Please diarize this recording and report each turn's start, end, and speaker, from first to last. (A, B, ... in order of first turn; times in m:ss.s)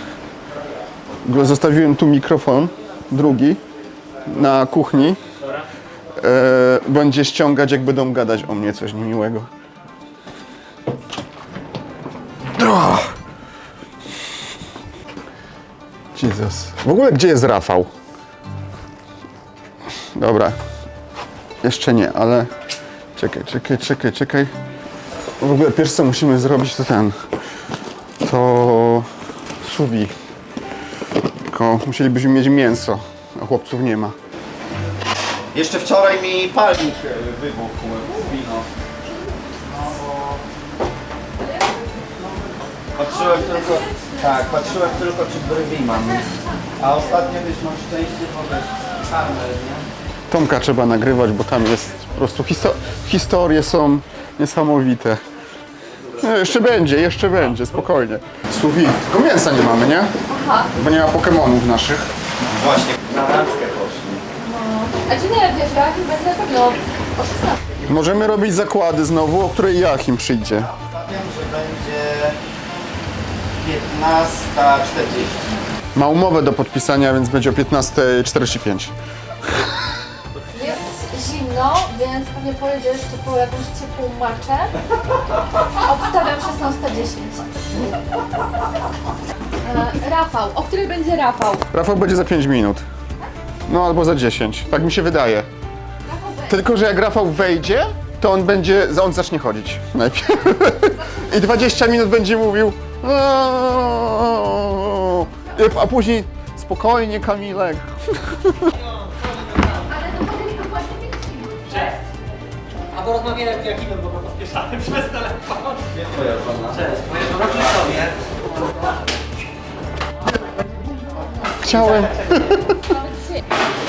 0:01.2-0:03.6 A
0:04.2-0:05.2 A
0:06.2-0:09.5 A
0:12.5-0:13.1 A
0:16.1-0:17.9 A
0:20.2-0:20.6 A
0:21.6-0:22.5 A
0:23.2-0:24.5 A
0:25.4-0:27.1 A
0:28.2-0:29.1 A
0:29.6-0:30.1 A
0:31.5-0:34.1 A
0:35.5-0:38.7 B
0:39.6-0:40.4 B
0:43.0-0:49.8 B
0:50.3-0:55.2 A
0:56.2-1:00.1 A
1:00.3-1:00.7 C
1:00.7-1:02.1 A
1:02.6-1:04.2 B
1:04.4-1:07.5 C
1:07.8-1:10.7 A
1:10.8-1:12.4 B
1:13.6-1:15.4 B
1:15.9-1:18.9 A
1:20.5-1:24.7 C
1:25.8-1:27.5 C
1:29.6-1:31.6 C
1:31.7-1:32.8 A
1:33.7-1:35.5 A
1:36.1-1:36.5 C
1:36.5-1:48.7 A
1:48.8-1:49.9 D
1:50.0-1:51.5 C
1:52.9-1:56.0 D
1:56.1-1:56.6 B
1:56.6-1:58.4 D
2:01.4-2:02.6 D
2:01.6-2:02.8 A